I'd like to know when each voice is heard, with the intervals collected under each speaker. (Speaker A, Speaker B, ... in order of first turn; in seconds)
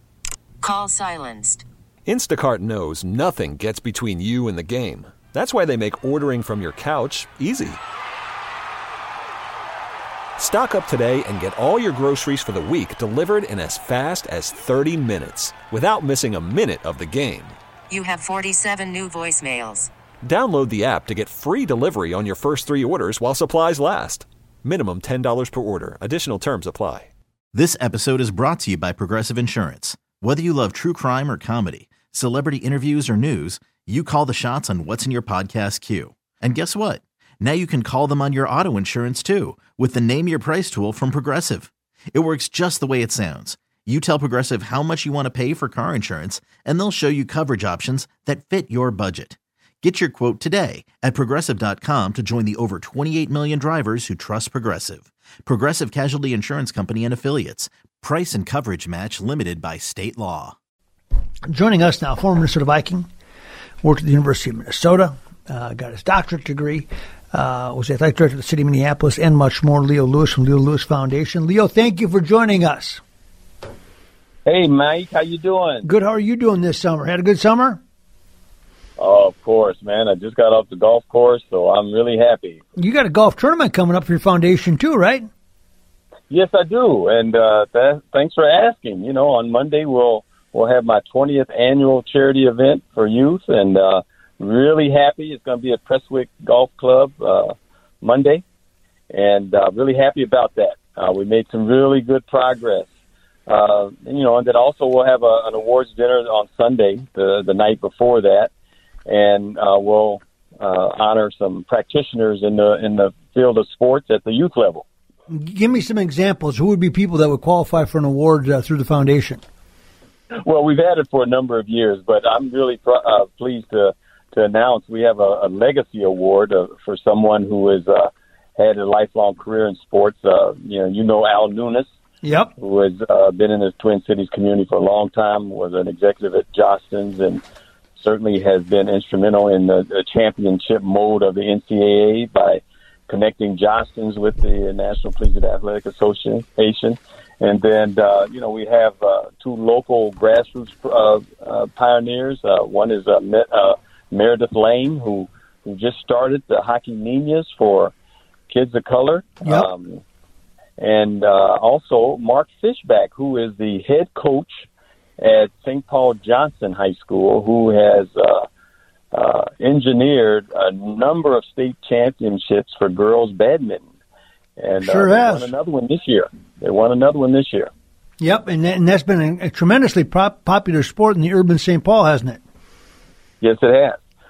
Speaker A: 0.6-1.6, 17.9-19.9
Speaker B: 2.0-7.8, 10.4-17.6, 20.2-27.1
Speaker C: 27.5-60.5
Speaker D: 61.5-63.1, 63.8-73.0, 75.8-77.8, 82.8-85.3, 115.3-119.4, 132.2-132.5, 174.8-175.5, 178.2-182.4
Speaker E: 74.5-75.9, 79.0-82.6, 86.3-98.4, 99.1-102.9, 103.5-108.5, 109.0-114.8, 120.4-131.9, 132.6-137.4, 138.0-157.9, 158.5-160.0, 160.8-164.7, 165.2-168.4, 169.1-173.8, 174.6-177.7, 183.4-184.0